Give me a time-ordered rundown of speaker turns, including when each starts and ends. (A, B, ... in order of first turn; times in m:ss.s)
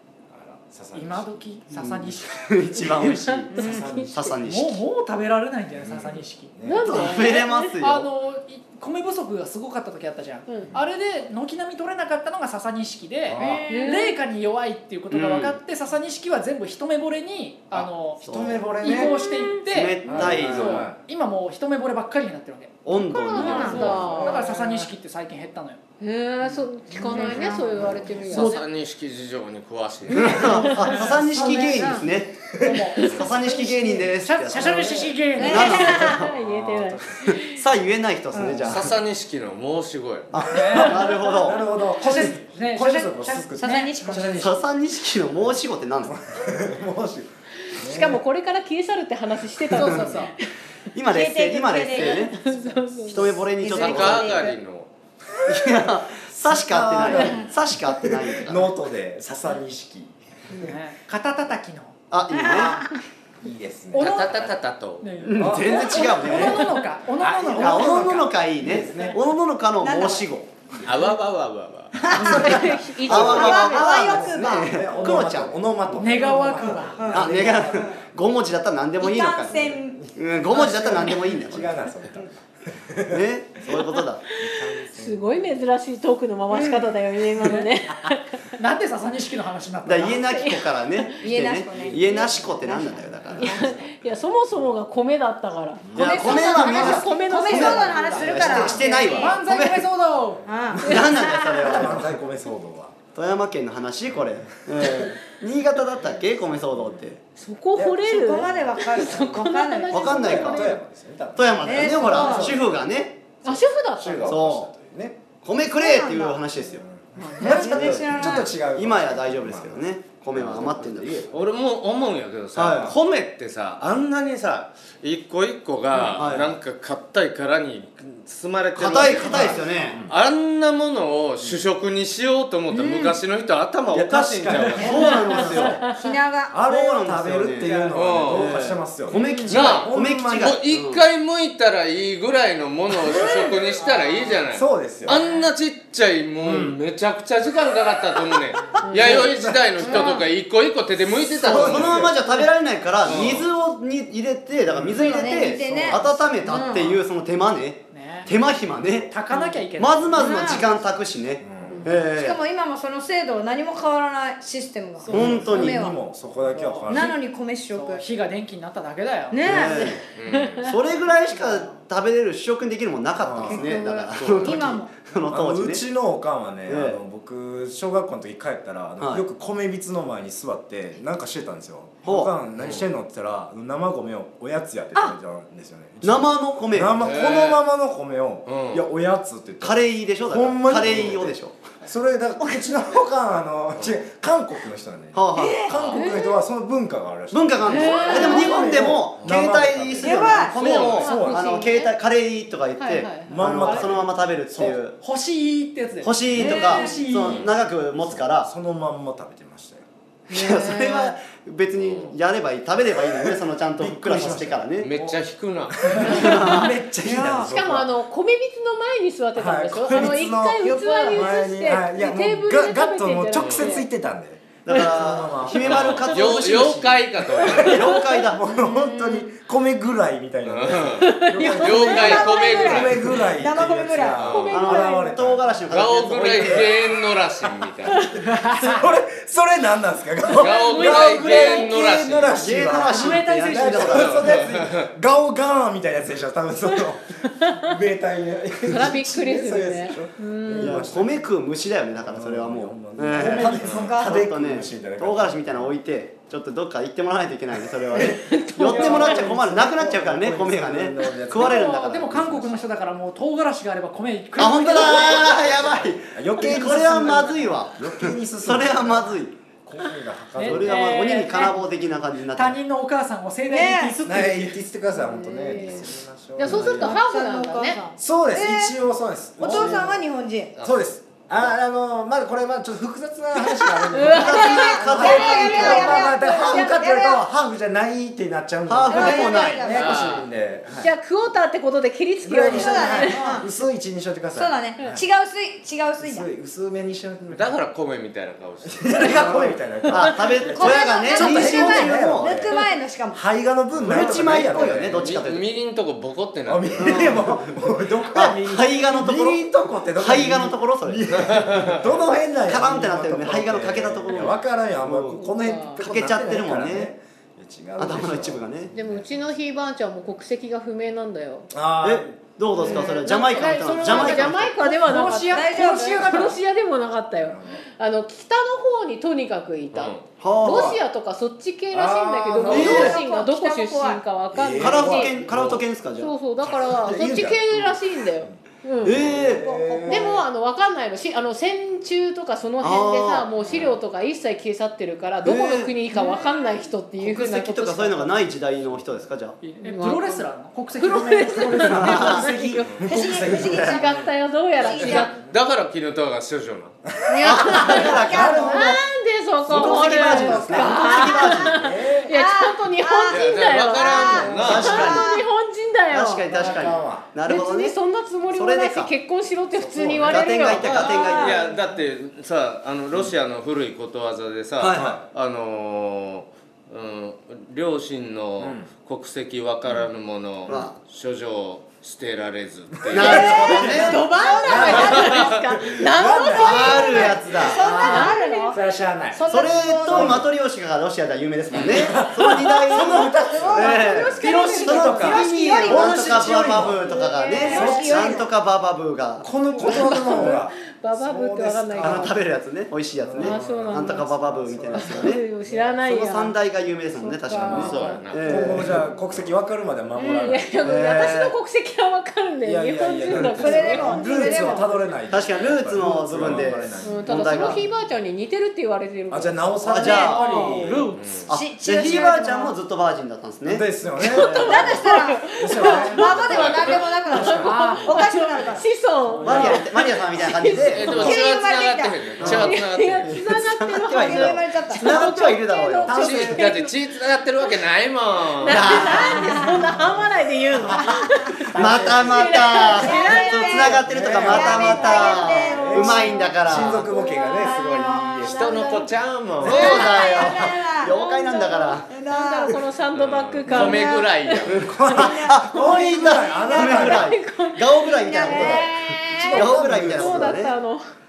0:00.3-0:01.3 A
0:00.9-0:02.2 B
0:01.7-0:04.8 C
0:03.0-0:04.1 D
0:03.0-0:04.4 A
0:03.6-0:06.5 B
0:05.7-0:07.2 A
0:06.6-0:07.7 D
0:06.8-0:08.1 C
0:07.7-0:22.7 B
0:13.3-0:13.6 A
0:13.7-0:14.2 D
0:15.1-0:15.6 C
0:17.7-0:19.1 C
0:18.2-0:19.2 A
0:18.8-0:19.6 D
0:19.6-0:20.9 C
0:20.0-0:21.0 A
0:22.8-0:24.2 C
0:22.9-0:24.5 D
0:23.3-0:23.8 E
0:23.5-0:24.9 A
0:23.6-0:25.8 B
0:26.0-0:28.6 D
0:27.0-0:27.8 E
0:27.0-0:28.5 A
0:27.1-0:28.0 C
0:28.3-0:30.7 F
0:30.1-0:30.4 E
0:30.1-0:32.3 C
0:30.4-0:31.1 D
0:30.7-0:31.6 B
0:31.0-0:33.7 A
0:31.4-0:32.0 E
0:32.7-0:33.3 D
0:33.0-0:36.3 C
0:33.6-0:36.0 B
0:35.4-0:35.8 E
0:35.4-0:37.6 D
0:35.9-0:37.2 A
0:37.2-0:39.0 C
0:38.3-0:38.7 E
0:38.6-0:40.3 F
0:40.3-0:41.6 C
0:40.5-0:41.3 B
0:40.5-0:44.6 A
0:41.9-0:44.3 B
0:43.6-0:44.4 E
0:44.4-0:46.2 C
0:45.4-0:48.2 A
0:47.7-0:50.3 D
0:49.7-0:50.3 B
0:49.8-0:50.2 C
0:50.9-0:52.4 C
0:51.1-0:52.3 E
0:51.9-0:53.5 D
0:53.1-0:54.6 C
0:53.6-0:54.5 E
0:53.6-0:54.9 F
0:55.5-0:58.7 C
0:56.3-0:57.5 A
0:57.1-0:57.5 E
0:58.3-1:00.2 A
1:00.5-1:01.9 B
1:02.1-1:02.8 C
1:02.3-1:02.9 E
1:03.4-1:04.4 A
1:03.9-1:04.5 B
1:04.0-1:05.0 F
1:05.0-1:09.1 B
1:05.2-1:06.8 C
1:05.3-1:06.6 A
1:05.9-1:06.6 D
1:07.2-1:09.2 A
1:07.4-1:10.5 C
1:09.8-1:10.3 E
1:10.8-1:11.9 F
1:11.9-1:15.0 E
1:12.1-1:13.9 D
1:12.1-1:16.0 C
1:13.1-1:17.9 A
1:15.9-1:17.0 B
1:17.0-1:18.0 E
1:17.0-1:21.8 C
1:19.0-1:20.1 E
1:19.5-1:23.2 A
1:23.1-1:24.2 C
1:24.4-1:25.5 A
1:24.8-1:28.4 D
1:27.4-1:27.7 B
1:28.6-1:30.3 B
1:29.8-1:33.6 C
1:30.3-1:31.2 D
1:31.2-1:33.5 E
1:33.3-1:38.8 D
1:33.4-1:34.1 A
1:35.8-1:37.0 A
1:35.9-1:39.9 C
1:36.0-1:39.3 E
1:38.0-1:40.5 B
1:40.5-1:41.8 E
1:40.8-1:42.1 C
1:40.9-1:41.9 D
1:41.7-1:42.9 A
1:43.1-1:47.2 C
1:47.4-1:50.8 D
1:47.7-1:48.7 A
1:48.0-1:50.5 E
1:49.9-1:50.8 C
1:49.9-1:52.9 A
1:51.4-1:53.2 C
1:51.6-1:52.6 E
1:53.4-1:54.4 D
1:53.4-1:55.2 A
1:54.2-1:54.7 C
1:55.4-1:56.8 C
1:55.7-1:56.4 E
1:56.6-2:01.3 A
1:57.2-1:57.8 D
1:57.4-1:58.6 E
1:57.4-2:01.2 C
2:00.4-2:00.7 F
2:01.3-2:15.4 F
2:02.5-2:02.9 C
2:02.7-2:02.9 A
2:06.2-2:06.5 C
2:08.7-2:10.0 C
2:09.0-2:10.1 A
2:12.7-2:13.2 B
2:13.9-2:15.8 A
2:14.8-2:15.9 C
2:15.0-2:15.9 D
2:15.9-2:16.6 E
2:16.5-2:20.6 A
2:16.6-2:21.0 C
2:17.9-2:18.5 F
2:19.1-2:19.5 D
2:19.5-2:32.1 F
2:24.5-2:25.2 A
2:26.4-2:26.8 A
2:28.8-2:29.3 D
2:28.9-2:29.8 A
2:29.8-2:30.2 D
2:29.9-2:30.2 E
2:31.3-2:39.1 C
2:31.4-2:32.2 A
2:33.0-2:33.5 F
2:33.1-2:33.4 A
2:34.7-2:37.0 A
2:34.9-2:37.0 E
2:37.9-2:38.3 B
2:39.0-2:40.5 B
2:39.3-2:39.6 E
2:39.7-2:42.4 C
2:40.2-2:40.7 E
2:41.4-2:41.9 A
2:41.7-2:41.9 D
2:42.1-2:46.0 E
2:45.0-2:47.1 A
2:45.1-2:45.8 C
2:46.4-2:47.1 B
2:46.9-2:48.0 E
2:47.7-2:49.6 B
2:49.3-2:49.8 E
2:49.4-2:50.0 C
2:49.7-2:50.7 D
2:50.1-2:50.6 F
2:50.6-2:55.8 C
2:53.2-2:53.7 A
2:53.4-2:53.9 E
2:53.6-2:54.1 D
2:54.1-2:54.6 F
2:54.4-2:54.9 E
2:55.3-3:21.6 A
2:56.6-2:57.0 C
2:59.0-2:59.2 C
3:02.0-3:02.3 C
3:02.6-3:02.9 F
3:06.0-3:07.0 C
3:07.0-3:07.6 F
3:08.4-3:08.8 F
3:09.6-3:11.6 C
3:10.8-3:11.2 F
3:15.1-3:15.6 C
3:15.3-3:15.7 E
3:15.7-3:16.0 F
3:15.9-3:16.3 D
3:17.3-3:25.0 C
3:17.6-3:18.5 D
3:18.0-3:18.5 E
3:20.0-3:20.6 E
3:20.5-3:21.0 F
3:21.0-3:21.9 D
3:22.8-3:23.6 D
3:23.2-3:24.7 A
3:23.6-3:23.9 B
3:24.5-3:27.5 B
3:26.0-3:28.5 C
3:26.3-3:26.7 A
3:26.6-3:27.0 D
3:27.2-3:29.8 A
3:30.3-3:31.1 D
3:30.3-3:34.9 C
3:31.7-3:32.2 F
3:33.2-3:37.9 A
3:34.8-3:35.8 F
3:36.0-3:36.6 D
3:36.0-3:36.8 C
3:37.0-3:37.5 E
3:37.4-3:43.9 D
3:39.3-3:46.3 A
3:39.7-3:40.3 C
3:43.4-3:43.8 F
3:44.6-3:48.5 C
3:45.6-3:47.9 F
3:47.4-3:55.7 A
3:48.6-3:49.3 E
3:50.4-3:53.0 F
3:51.0-3:52.2 D
3:51.5-3:54.2 E
3:54.2-3:54.6 F
3:54.2-3:55.2 D
3:54.5-3:56.7 C
3:55.7-3:58.1 F
3:57.9-3:58.2 D
3:57.9-4:11.3 A
3:58.2-3:58.7 B
4:00.3-4:02.4 F
4:00.4-4:02.1 D
4:02.3-4:04.7 C
4:02.8-4:04.1 B
4:03.9-4:04.8 F
4:07.3-4:07.6 D
4:08.7-4:10.9 D
4:10.6-4:22.1 C
4:12.0-4:15.7 A
4:13.1-4:14.2 E
4:13.6-4:13.9 F
4:17.9-4:19.3 D
4:18.0-4:22.6 A
4:18.7-4:19.1 B
4:21.3-4:25.4 B
4:24.4-4:29.3 C
4:24.8-4:30.8 A
4:30.3-4:31.0 B
4:30.4-4:32.6 C
4:30.6-4:31.5 D
4:32.3-4:34.6 B
4:33.5-4:34.0 E
4:34.0-4:37.0 A
4:34.9-4:37.8 D
4:36.7-4:38.8 E
4:38.0-4:40.0 A
4:39.4-4:40.5 E
4:40.6-4:40.9 F
4:40.6-4:50.9 A
4:43.5-4:47.3 E
4:43.9-4:46.7 D
4:44.1-4:46.2 C
4:48.7-4:50.2 C
4:48.9-4:50.2 E
4:49.0-4:49.4 D
4:49.7-4:50.3 F
4:50.7-4:53.4 D
4:52.2-4:55.0 A
4:52.4-4:53.4 E
4:54.3-4:56.3 E
4:56.0-4:57.6 A
4:57.3-4:59.5 F
4:58.6-5:02.5 A
4:59.2-5:02.5 C
5:00.4-5:03.2 E
5:03.1-5:05.1 A
5:03.7-5:06.9 F
5:03.8-5:05.4 C
5:03.9-5:04.6 E
5:06.4-5:19.2 A
5:06.8-5:11.3 C
5:12.4-5:15.2 C
5:15.2-5:15.8 D
5:15.8-5:16.9 C
5:17.8-5:18.7 C
5:18.7-5:21.5 D
5:21.5-5:22.1 A
5:21.8-5:24.6 C
5:22.6-5:35.1 D
5:22.6-5:22.8 A
5:23.0-5:26.4 B
5:25.2-5:26.1 E
5:27.2-5:27.6 A
5:29.7-5:30.0 F
5:30.2-5:30.8 C
5:30.4-5:30.7 A
5:31.7-5:33.0 A
5:32.4-5:34.0 E
5:32.5-5:33.0 C
5:34.3-5:35.6 A
5:34.6-5:36.1 C
5:36.0-5:39.1 D
5:36.4-5:38.3 A
5:38.8-5:40.2 C
5:38.9-5:40.2 A
5:39.8-5:48.1 D
5:42.6-5:43.3 C
5:43.5-5:43.7 F
5:45.2-5:45.8 C
5:47.0-5:49.4 C
5:49.4-5:52.2 B
5:49.6-5:55.2 D
5:51.6-5:52.3 C
5:51.8-5:54.0 A
5:52.8-5:55.1 E
5:53.4-5:53.8 C
5:54.8-5:56.7 F
5:56.9-5:58.8 A
5:57.1-5:58.5 E
5:57.2-6:11.4 D
5:57.2-5:58.8 C
5:59.4-6:02.1 A
5:59.4-6:01.7 C
6:02.1-6:05.2 E
6:03.1-6:04.9 F
6:04.2-6:04.9 A
6:04.4-6:05.1 C
6:05.9-6:07.7 C
6:06.3-6:07.1 A
6:08.2-6:08.9 C
6:09.5-6:10.7 A
6:10.0-6:11.4 C
6:10.5-6:23.6 F
6:10.8-6:11.4 E
6:14.6-6:14.9 C
6:14.7-6:15.0 A
6:18.4-6:18.7 A
6:20.5-6:20.7 C
6:22.7-6:30.3 A
6:22.9-6:24.9 C
6:23.0-6:28.5 D
6:23.6-6:24.9 E
6:24.7-6:25.3 F
6:26.4-6:27.8 C
6:27.4-6:28.6 E
6:29.2-6:30.1 E
6:29.3-6:40.4 C
6:31.5-6:31.9 F
6:31.5-6:36.8 A
6:32.2-6:33.0 D
6:33.3-6:33.8 E
6:33.5-6:36.2 D
6:35.6-6:36.1 E
6:36.8-6:38.2 D
6:37.3-6:38.3 E
6:37.4-6:38.2 A
6:39.2-6:42.3 A
6:39.5-6:42.2 D
6:41.8-6:45.2 C
6:42.9-6:45.8 A
6:43.2-6:44.1 D
6:44.7-6:46.4 D
6:45.8-6:48.8 C
6:46.9-6:48.4 D
6:47.4-6:47.7 A
6:47.5-6:49.3 F
6:48.2-6:51.3 A
6:50.0-6:54.7 D
6:50.6-6:51.3 C
6:52.4-6:57.7 A
6:53.1-6:55.0 E
6:55.1-6:57.6 C
6:56.8-7:00.5 D
6:59.1-7:00.9 A
6:59.7-7:00.1 E
6:59.7-7:03.7 C
7:00.1-7:01.1 B
7:00.6-7:01.3 F
7:01.3-7:02.6 E
7:03.4-7:07.9 A
7:04.0-7:11.2 D
7:04.2-7:08.6 E
7:06.3-7:06.7 F
7:09.0-7:09.6 A
7:09.2-7:11.2 C
7:10.6-7:13.1 F
7:11.0-7:12.1 E
7:12.2-7:16.0 C
7:12.3-7:16.8 D
7:13.9-7:15.0 E
7:15.8-7:16.5 A
7:16.0-7:19.1 F
7:18.4-7:23.8 D
7:18.4-7:19.4 C
7:18.9-7:19.5 E
7:19.5-7:20.8 A
7:20.8-7:21.0 E
7:21.5-7:26.9 C
7:21.6-7:22.0 A
7:22.1-7:28.2 E
7:23.8-7:28.6 A
7:24.7-7:25.2 D
7:26.2-7:26.7 D
7:27.4-7:40.8 D
7:28.2-7:29.9 F
7:29.4-7:31.9 C
7:29.5-7:29.8 A
7:29.8-7:31.0 E
7:31.8-7:32.6 E
7:32.9-7:34.7 F
7:33.5-7:33.8 A
7:34.5-7:40.5 C
7:34.6-7:37.1 A
7:36.1-7:36.4 E
7:38.0-7:39.4 E
7:39.1-7:40.4 A